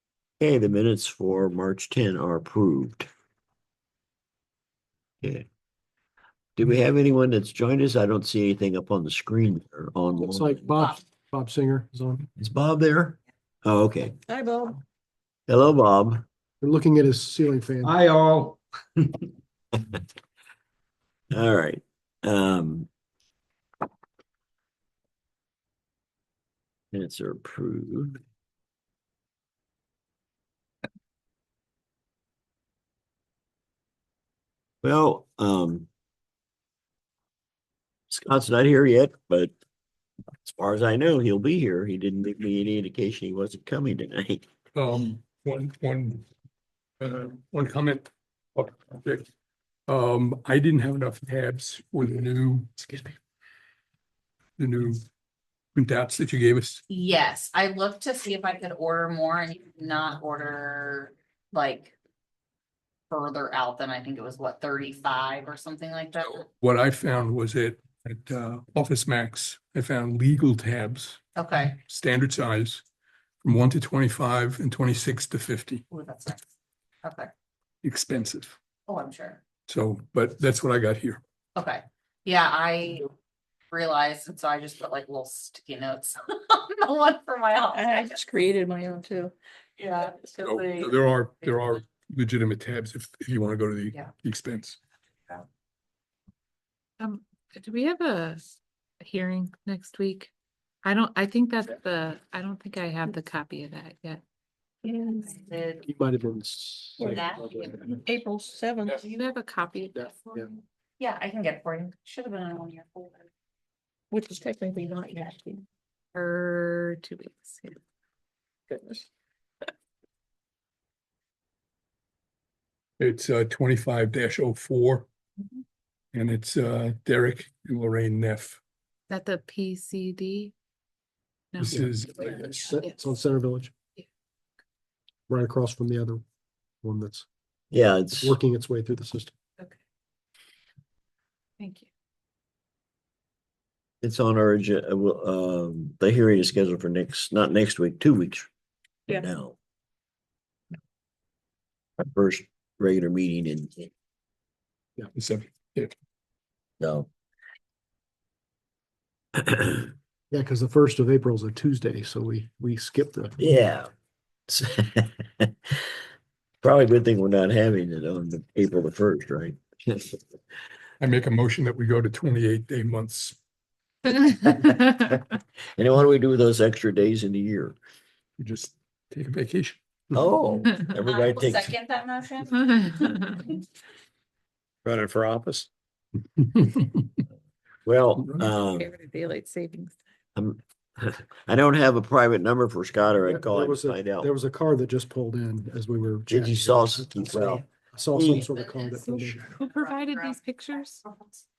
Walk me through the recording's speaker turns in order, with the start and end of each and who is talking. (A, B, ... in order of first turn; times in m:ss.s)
0:00.4-0:03.1 A
0:06.6-0:10.8 A
0:10.2-0:12.3 B
0:12.4-0:14.1 A
0:14.3-0:14.8 C
0:15.5-0:16.2 A
0:16.6-0:18.0 B
0:17.8-0:19.1 D
0:21.3-0:22.9 A
0:26.9-0:28.2 A
0:34.8-0:35.9 A
0:38.1-0:39.5 A
0:40.4-0:44.4 A
0:44.7-0:46.2 E
0:47.0-0:49.3 E
0:49.9-0:53.1 E
0:54.6-0:55.0 E
0:55.7-0:56.8 E
0:56.9-1:01.9 F
1:03.1-1:06.4 F
1:06.4-1:11.2 E
1:11.4-1:11.8 F
1:11.7-1:12.8 E
1:13.4-1:15.8 E
1:15.9-1:16.4 F
1:17.0-1:17.3 F
1:17.8-1:18.6 E
1:18.9-1:19.4 F
1:19.7-1:21.2 E
1:21.6-1:23.1 F
1:23.7-1:28.2 F
1:27.7-1:29.3 C
1:29.8-1:31.0 F
1:30.4-1:34.8 E
1:37.0-1:38.4 G
1:39.0-1:40.3 G
1:40.8-1:44.2 G
1:44.8-1:45.3 C
1:45.2-1:45.8 F
1:45.8-1:48.0 B
1:47.0-1:47.7 F
1:47.9-1:49.1 C
1:49.0-1:50.5 G
1:51.0-1:53.3 F
1:54.1-1:55.6 C
1:56.1-1:57.8 G
1:58.7-1:59.0 C
2:03.0-2:05.0 E
2:06.1-2:08.6 E
2:09.1-2:10.5 G
2:11.5-2:11.8 G
2:11.6-2:12.3 E
2:11.7-2:13.7 B
2:12.3-2:13.0 G
2:15.3-2:16.2 B
2:16.8-2:17.2 B
2:17.7-2:18.4 A
2:18.2-2:19.3 B
2:21.6-2:21.9 G
2:24.0-2:28.5 A
2:29.1-2:29.6 A
2:32.0-2:33.9 A
2:35.1-2:35.9 E
2:36.8-2:37.1 A
2:39.4-2:39.9 A
2:40.3-2:43.4 B
2:43.4-2:43.9 A
2:44.5-2:45.5 A
2:46.6-2:50.2 A
2:51.0-2:53.4 E
2:54.1-2:57.8 A
2:58.4-2:59.8 E
3:00.1-3:01.7 A
3:01.0-3:03.5 F
3:04.9-3:05.6 D
3:06.6-3:06.9 E
3:07.8-3:08.9 A
3:08.6-3:10.0 G
3:10.4-3:14.3 A
3:13.3-3:19.6 B
3:16.3-3:18.5 A
3:19.0-3:21.0 G
3:19.7-3:20.4 F